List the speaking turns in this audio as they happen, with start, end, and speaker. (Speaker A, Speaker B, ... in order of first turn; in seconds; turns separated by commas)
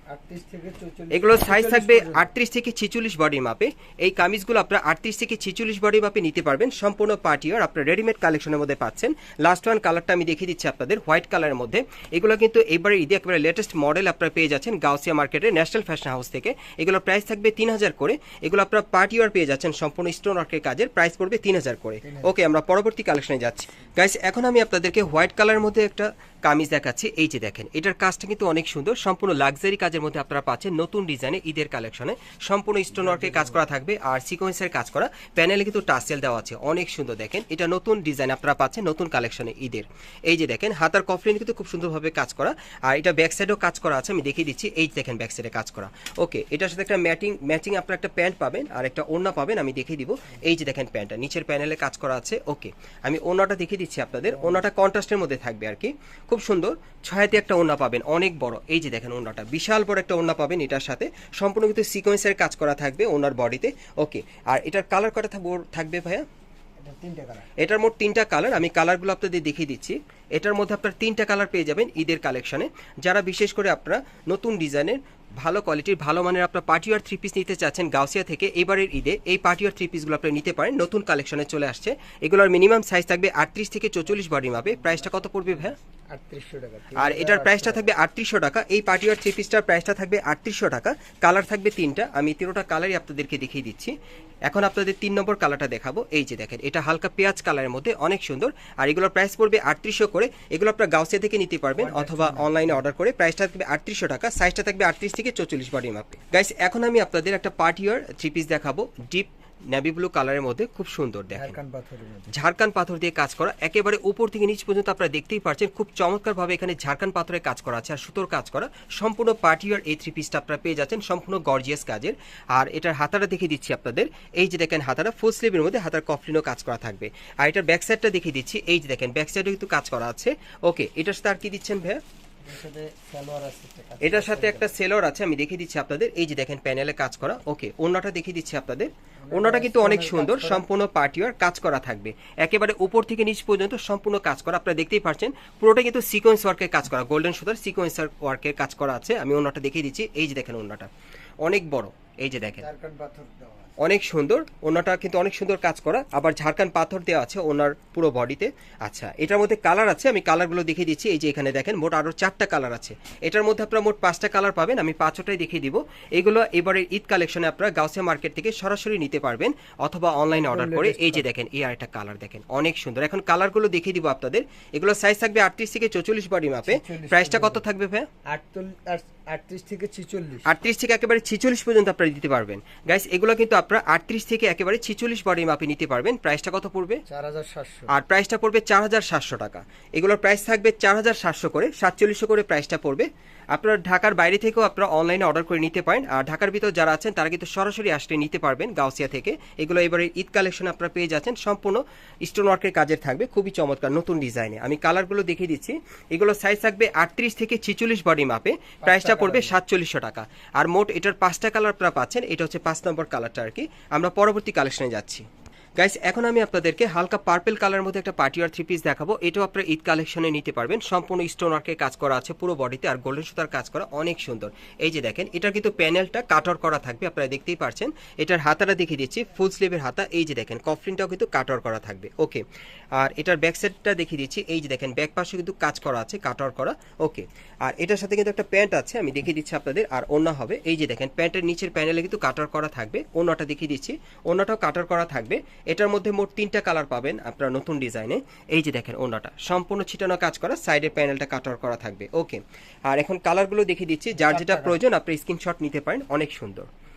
Speaker A: 0.1-2.3, Speaker B: 1.1-66.3, Speaker A: 22.0-22.4, Speaker A: 33.0-33.6, Speaker A: 66.8-67.5, Speaker B: 67.6-85.8, Speaker A: 84.3-84.9, Speaker A: 86.1-87.9, Speaker B: 87.0-93.9, Speaker B: 94.5-111.6, Speaker A: 101.8-102.8, Speaker A: 111.3-112.3, Speaker B: 112.3-132.0, Speaker A: 132.4-134.8, Speaker B: 134.0-150.9, Speaker A: 139.2-140.7, Speaker B: 151.4-152.7, Speaker A: 152.6-153.8, Speaker B: 153.8-178.1, Speaker A: 170.3-171.3, Speaker A: 176.6-177.6, Speaker A: 178.3-180.5, Speaker B: 180.4-187.0, Speaker A: 187.1-187.9, Speaker B: 187.9-215.3, Speaker A: 208.8-209.6, Speaker B: 215.8-232.4, Speaker B: 233.0-256.7, Speaker A: 254.1-254.8